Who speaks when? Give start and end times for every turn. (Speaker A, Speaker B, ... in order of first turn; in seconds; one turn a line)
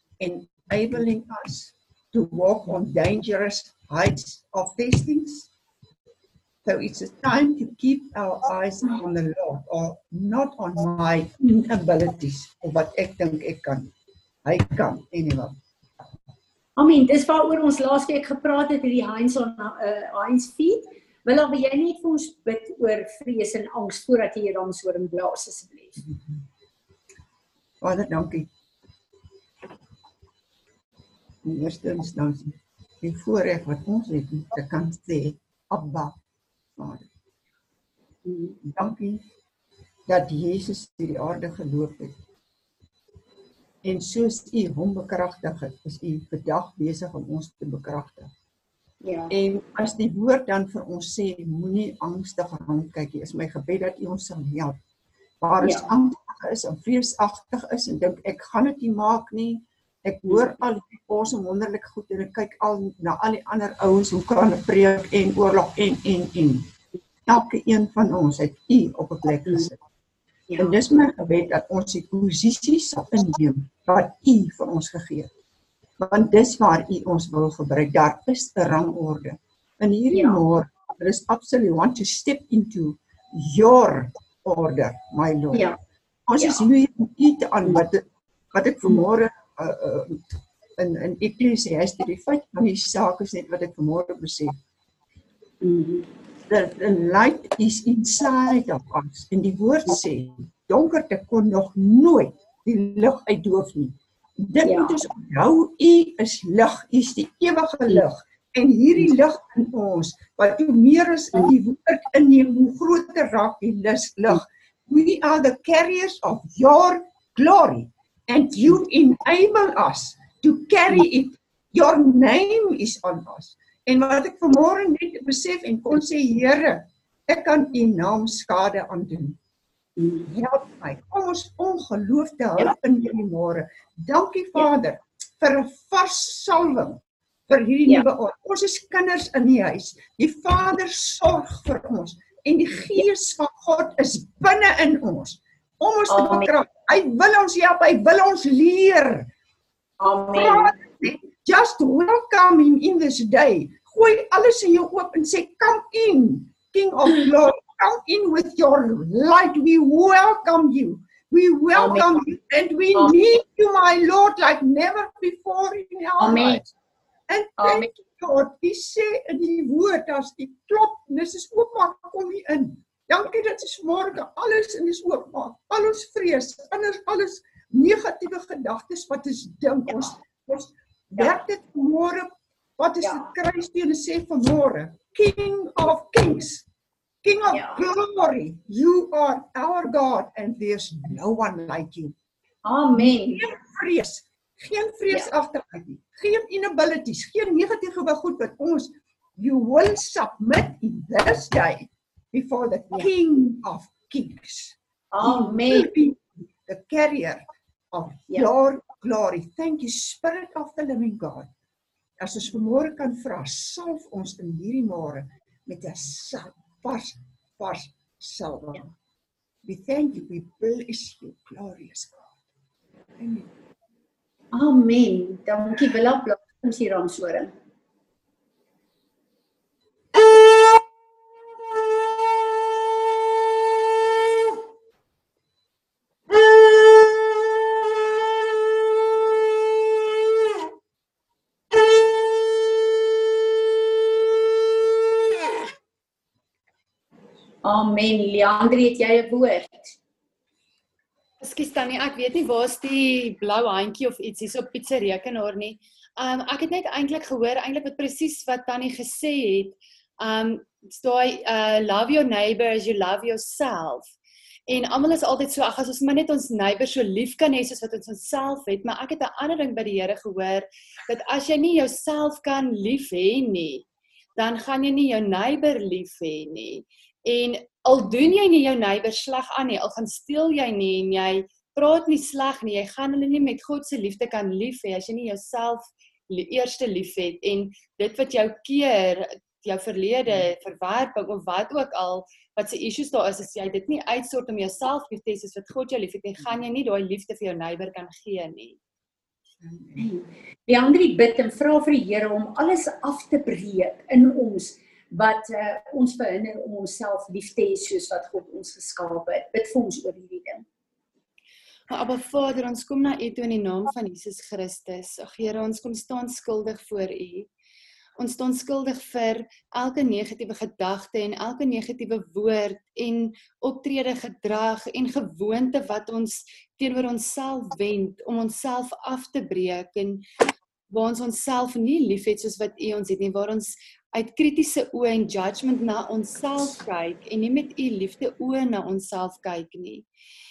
Speaker A: 0.2-5.5
Speaker A: 6.6-13.9
Speaker A: 14.4-15.6
Speaker B: 16.8-26.0
Speaker A: 27.8-28.5
Speaker A: 31.4-36.1
Speaker A: 36.8-37.1
Speaker B: 38.2-38.6
Speaker A: 38.6-39.2
Speaker A: 40.1-42.2
Speaker A: 43.8-48.3
Speaker B: 49.0-49.3
Speaker A: 49.3-54.8
Speaker A: 55.4-66.7
Speaker B: 55.6-55.9
Speaker A: 67.3-69.8
Speaker B: 70.5-70.7
Speaker A: 70.6-75.3
Speaker A: 76.0-85.7
Speaker B: 80.1-80.4
Speaker A: 86.3-90.2
Speaker A: 90.8-94.6
Speaker B: 95.6-96.0
Speaker A: 96.5-129.4
Speaker B: 104.6-105.0
Speaker B: 130.0-130.3
Speaker A: 130.2-149.3
Speaker B: 146.1-146.5
Speaker B: 150.0-150.7
Speaker A: 150.3-166.7
Speaker B: 161.7-162.2
Speaker B: 166.2-166.6
Speaker A: 167.3-186.7
Speaker B: 167.6-167.9
Speaker B: 179.9-180.1
Speaker B: 183.0-183.3
Speaker A: 187.2-192.1
Speaker B: 187.5-187.8
Speaker B: 192.6-193.4
Speaker A: 192.9-211.5
Speaker B: 205.1-205.9
Speaker A: 212.2-218.9
Speaker A: 219.6-222.3
Speaker A: 223.2-223.5
Speaker B: 224.5-227.5
Speaker B: 247.6-250.0
Speaker C: 251.4-264.1
Speaker C: 264.7-273.9
Speaker C: 274.4-298.8
Speaker A: 299.6-300.1
Speaker B: 300.0-310.6
Speaker C: 311.9-317.5
Speaker C: 318.2-330.2
Speaker C: 330.9-340.1